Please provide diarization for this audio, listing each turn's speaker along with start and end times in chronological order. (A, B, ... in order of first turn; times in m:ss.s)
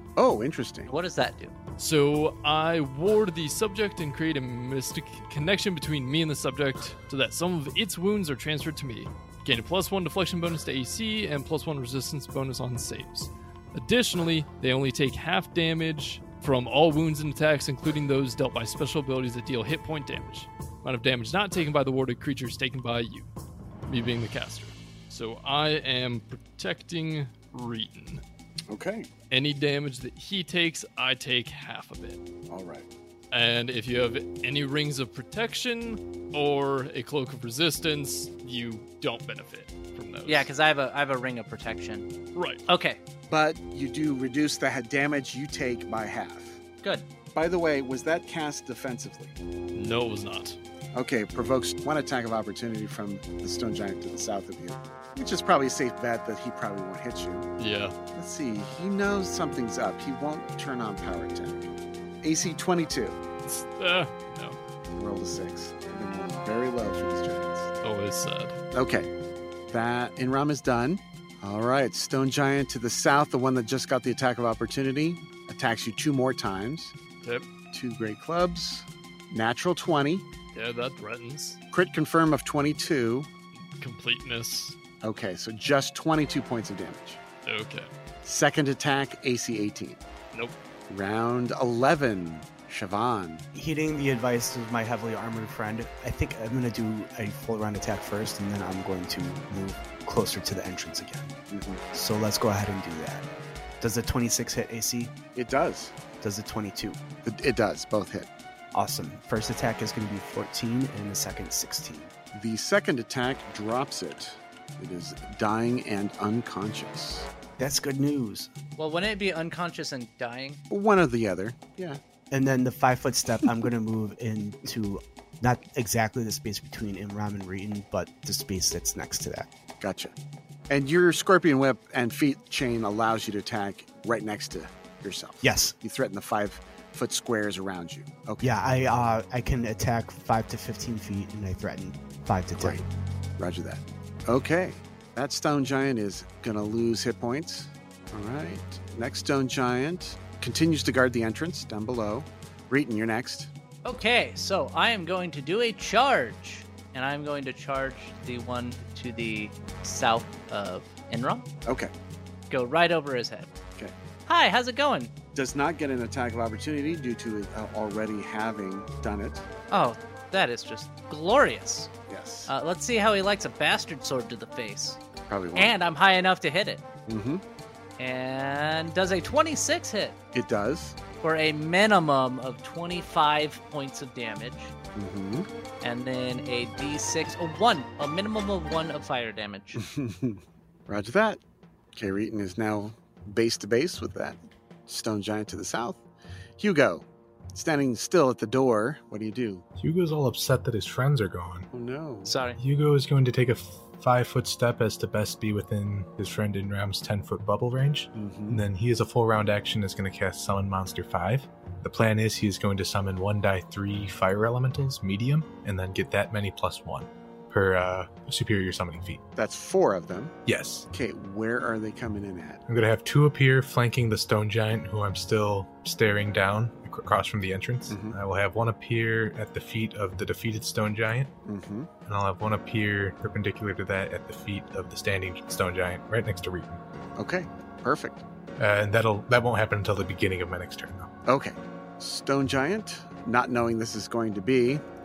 0:00.2-0:00.9 A
0:00.8-0:01.5 B
0:01.8-0:23.3 C
0:23.9-0:28.2 C
0:28.7-0:29.1 A
0:29.3-0:32.2 C
0:32.5-0:32.9 A
0:33.3-0:40.5 C
0:40.2-0:42.1 B
0:42.3-0:42.6 C
0:42.6-0:43.0 B
0:43.3-0:46.6 A
0:47.3-0:49.3 A
0:49.7-0:50.6 C
0:50.9-0:57.4 A
0:57.6-0:57.9 C
0:58.1-1:01.7 A
1:02.2-1:03.2 A
1:03.4-1:04.6 C
1:05.0-1:07.7 A
1:07.8-1:08.6 C
1:08.7-1:09.1 A
1:09.7-1:16.9 A
1:17.2-1:17.5 C
1:17.7-1:20.3 A
1:20.5-1:21.6 C
1:21.7-1:23.3 A
1:23.8-1:24.8 C
1:25.0-1:27.2 A
1:27.4-1:27.9 C
1:28.2-1:30.0 A
1:30.9-1:33.4 A
1:33.5-1:41.3 D
1:41.5-1:41.8 A
1:41.9-1:43.3 D
1:43.8-1:45.2 D
1:45.3-1:46.0 A
1:46.2-1:47.0 D
1:47.2-1:48.3 A
1:48.7-1:52.1 D
1:52.3-1:57.3 A
1:57.6-1:58.5 D
1:58.8-2:00.6 B
2:00.7-2:02.0 A
2:02.3-2:09.5 D
2:09.8-2:10.1 A
2:10.7-2:18.5 A
2:15.4-2:15.7 D
2:18.4-2:22.8 D
2:22.6-2:22.8 A
2:23.4-2:33.5 A
2:33.8-2:41.5 B
2:41.6-2:41.9 A
2:42.5-2:43.5 B
2:44.3-2:45.1 B
2:45.3-2:49.4 A
2:49.7-2:51.9 B
2:52.1-2:52.5 A
2:52.5-2:55.0 B
2:55.3-2:55.7 A
2:55.5-2:56.8 B
2:57.1-2:57.4 A
2:58.0-3:00.2 B
3:00.3-3:01.0 A
3:01.2-3:04.7 B
3:05.0-3:05.5 A
3:05.8-3:09.8 B
3:09.8-3:11.4 A
3:11.9-3:16.0 A
3:16.6-3:19.6 A
3:19.8-3:21.7 E
3:21.7-3:22.3 A
3:22.2-3:22.6 B
3:22.6-3:39.2 E
3:28.1-3:28.6 A
3:39.3-3:40.4 A
3:40.4-3:40.9 E
3:40.9-3:42.6 A
3:42.7-3:51.3 E
3:47.9-3:48.2 A
3:51.4-3:51.9 A
3:52.0-3:56.8 E
3:57.2-3:58.2 A
3:58.6-4:01.1 E
4:01.2-4:04.8 A